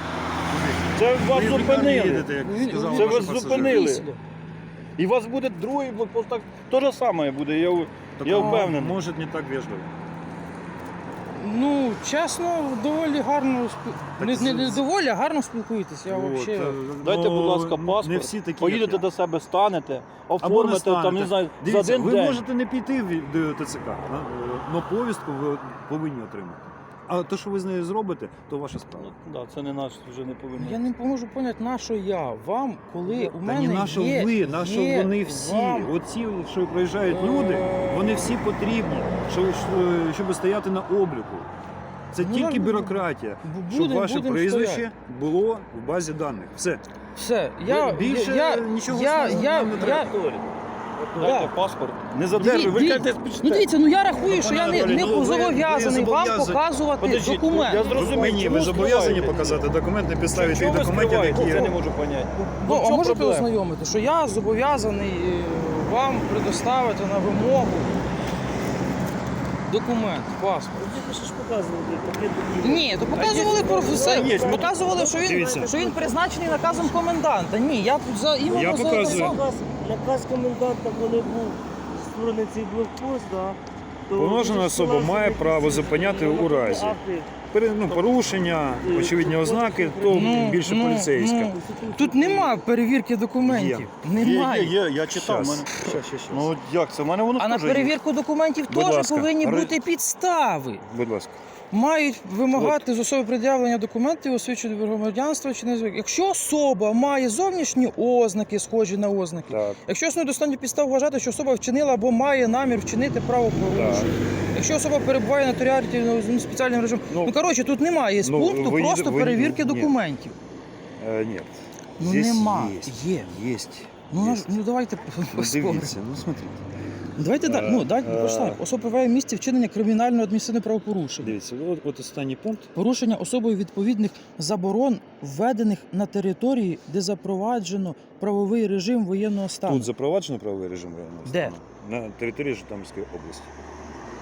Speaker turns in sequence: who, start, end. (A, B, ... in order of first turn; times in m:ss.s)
0:00.5-0:04.0 A
0:00.9-0:02.3 B
0:02.3-0:04.2 C
0:02.9-0:04.1 B
0:05.0-0:09.0 B
0:08.2-0:09.9 A
0:08.3-0:08.7 C
0:11.3-0:16.8 C
0:14.2-0:14.8 A
0:16.1-0:19.1 A
0:17.0-0:22.4 B
0:20.4-0:29.1 A
0:29.0-0:30.8 B
0:30.6-0:35.9 C
0:33.3-0:41.5 A
0:37.1-0:38.3 C
0:42.1-0:46.8 A
0:42.2-0:44.9 C
0:47.2-0:50.2 C
0:47.6-0:50.2 A
0:49.2-0:51.5 D
0:51.2-0:53.7 B
0:51.2-0:51.5 C
0:52.4-0:58.1 C
0:54.2-0:56.6 A
0:57.0-0:59.7 B
0:57.9-1:01.8 A
1:00.3-1:03.5 B
1:01.5-1:01.7 C
1:02.6-1:08.0 C
1:09.7-1:10.9 C
1:10.8-1:17.0 D
1:12.6-1:19.4 C
1:14.0-1:14.7 B
1:15.2-1:15.7 A
1:18.4-1:27.3 D
1:18.5-1:19.4 A
1:24.1-1:27.0 A
1:27.5-1:31.6 A
1:28.7-1:30.5 D
1:30.1-1:34.8 C
1:31.4-1:32.6 D
1:33.4-1:33.9 A
1:34.1-1:37.9 B
1:35.1-1:36.5 A
1:37.4-1:40.8 C
1:38.7-1:39.4 A
1:39.4-1:39.8 B
1:40.8-1:41.4 A
1:41.7-2:00.4 C
1:42.5-1:42.8 A
1:49.5-1:49.8 A
1:53.7-1:54.1 A
1:58.2-2:00.0 A
2:01.0-2:04.6 A
2:02.0-2:03.3 C
2:04.1-2:05.9 C
2:05.3-2:06.6 A
2:07.2-2:11.4 C
2:07.4-2:08.6 A
2:11.2-2:12.7 A
2:12.7-2:19.9 C
2:19.6-2:23.5 A
2:21.3-2:21.5 C